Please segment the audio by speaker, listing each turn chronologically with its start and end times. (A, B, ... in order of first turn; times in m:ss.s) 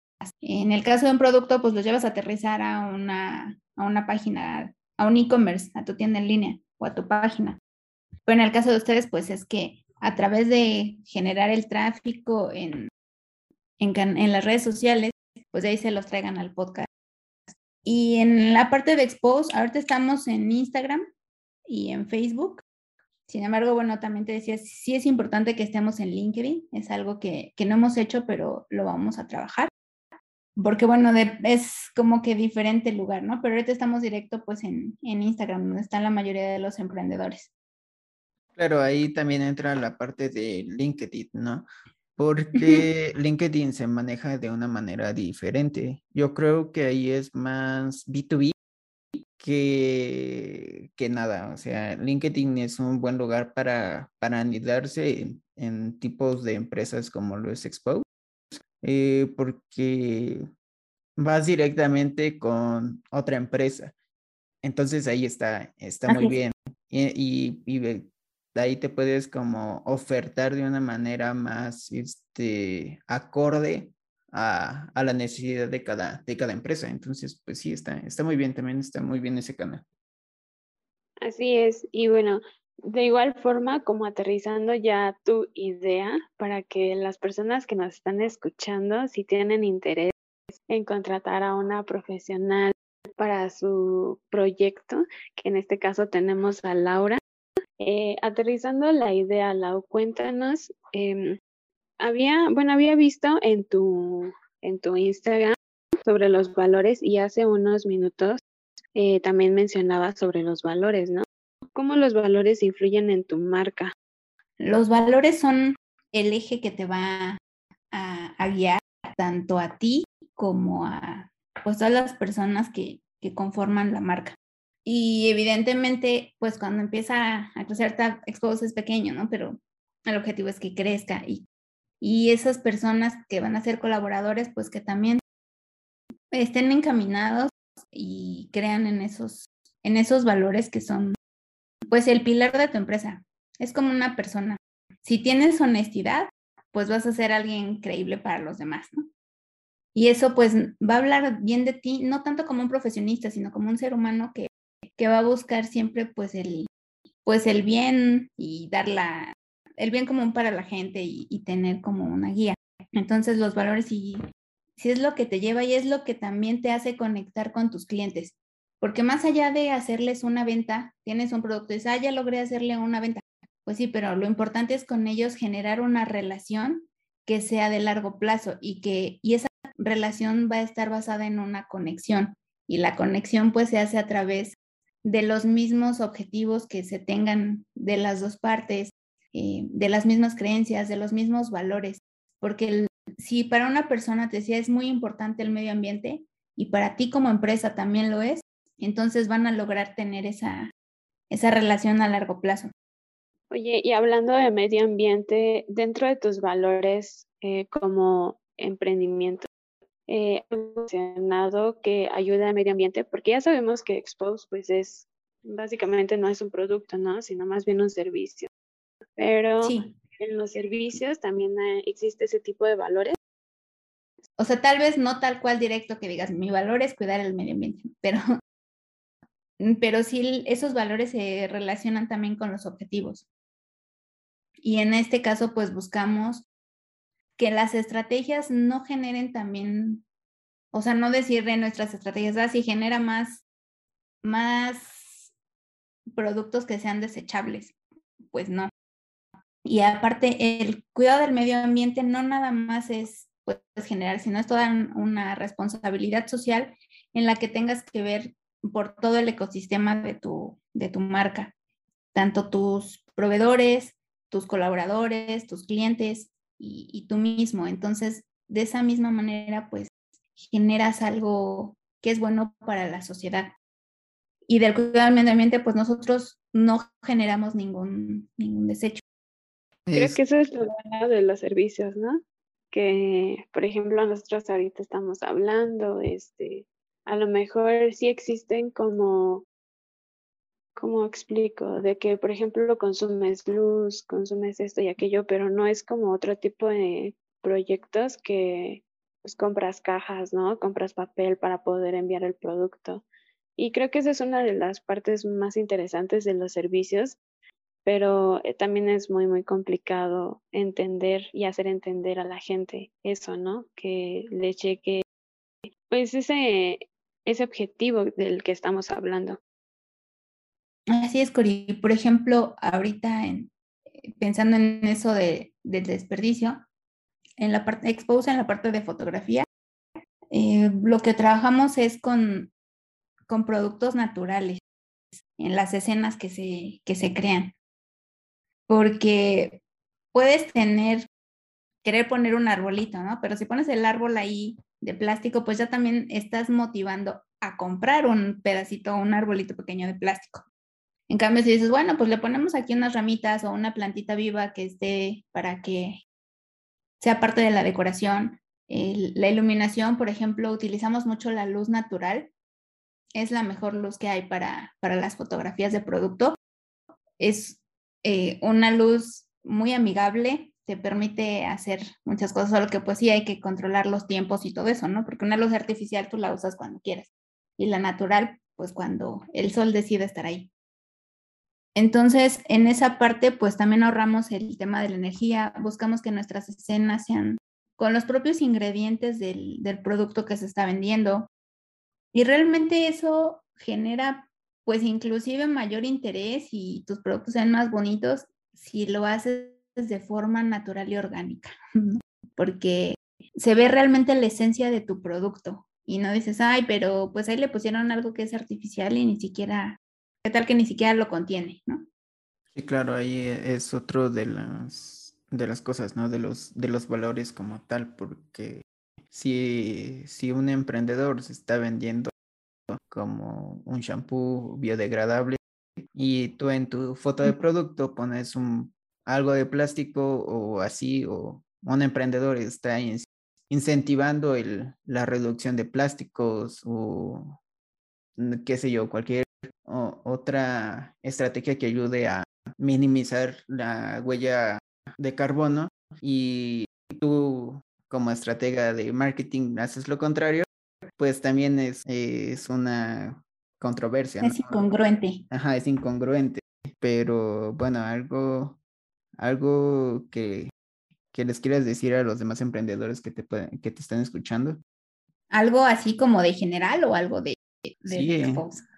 0:00.4-0:07.6 A
0:08.2-0:12.9 A
0:13.8-0:16.9 A
0:17.5-0:21.0 A
0:21.6-0:22.6 A
0:23.3-0:29.7 A
0:30.6-0:37.5 A
0:38.6-0:41.6 B
0:42.2-0:48.5 B
0:42.6-0:42.8 A
0:49.4-0:58.0 B
0:58.8-1:00.4 B
1:01.2-1:03.9 B
1:04.6-1:19.8 B
1:06.1-1:06.4 A
1:21.2-1:30.1 C
1:30.7-1:37.2 C
1:37.8-1:41.4 C
1:42.0-1:48.4 C
1:48.9-1:53.9 C
1:54.6-1:57.4 A
1:57.9-2:11.4 A
2:12.0-2:15.2 A
2:16.3-2:21.2 A
2:21.9-2:29.1 A
2:29.9-2:36.7 A
2:37.2-2:44.2 A
2:44.8-3:20.7 A
3:21.3-3:22.7 A
3:23.5-3:29.5 C
3:30.1-3:38.5 C
3:39.2-3:43.2 C
3:39.6-3:40.0 A
3:44.4-3:48.2 A
3:49.6-3:53.2 A
3:54.6-3:56.4 A
3:57.4-4:00.0 A
4:00.7-4:03.4 A
4:04.2-4:05.3 A
4:06.1-4:07.7 A
4:08.3-4:08.7 A
4:09.6-4:21.5 A
4:22.1-4:33.5 A
4:34.5-4:39.0 A
4:39.9-4:40.2 B
4:39.9-4:42.2 C
4:42.7-4:49.4 C
4:50.8-5:03.0 C
5:03.6-5:07.2 C
5:07.8-5:15.0 C
5:15.9-5:19.4 C
5:20.9-5:26.6 A
5:27.4-5:29.4 A
5:30.3-5:32.5 A
5:33.3-5:34.6 A
5:35.4-5:37.5 A
5:38.7-5:39.6 A
5:40.1-5:41.0 A
5:41.8-5:50.5 A
5:51.1-5:56.0 A
5:57.0-6:02.3 A
6:03.2-6:06.4 A
6:07.2-6:20.5 A
6:21.7-6:31.3 A
6:32.1-6:51.9 A
6:52.5-7:02.1 B
7:02.7-7:05.4 B
7:05.9-7:17.4 B
7:18.2-7:30.4 B
7:31.0-7:34.6 B
7:34.2-7:35.2 A
7:35.3-7:38.6 B
7:39.2-7:40.5 B
7:41.1-7:44.6 B
7:45.3-7:48.6 A
7:47.9-7:48.4 B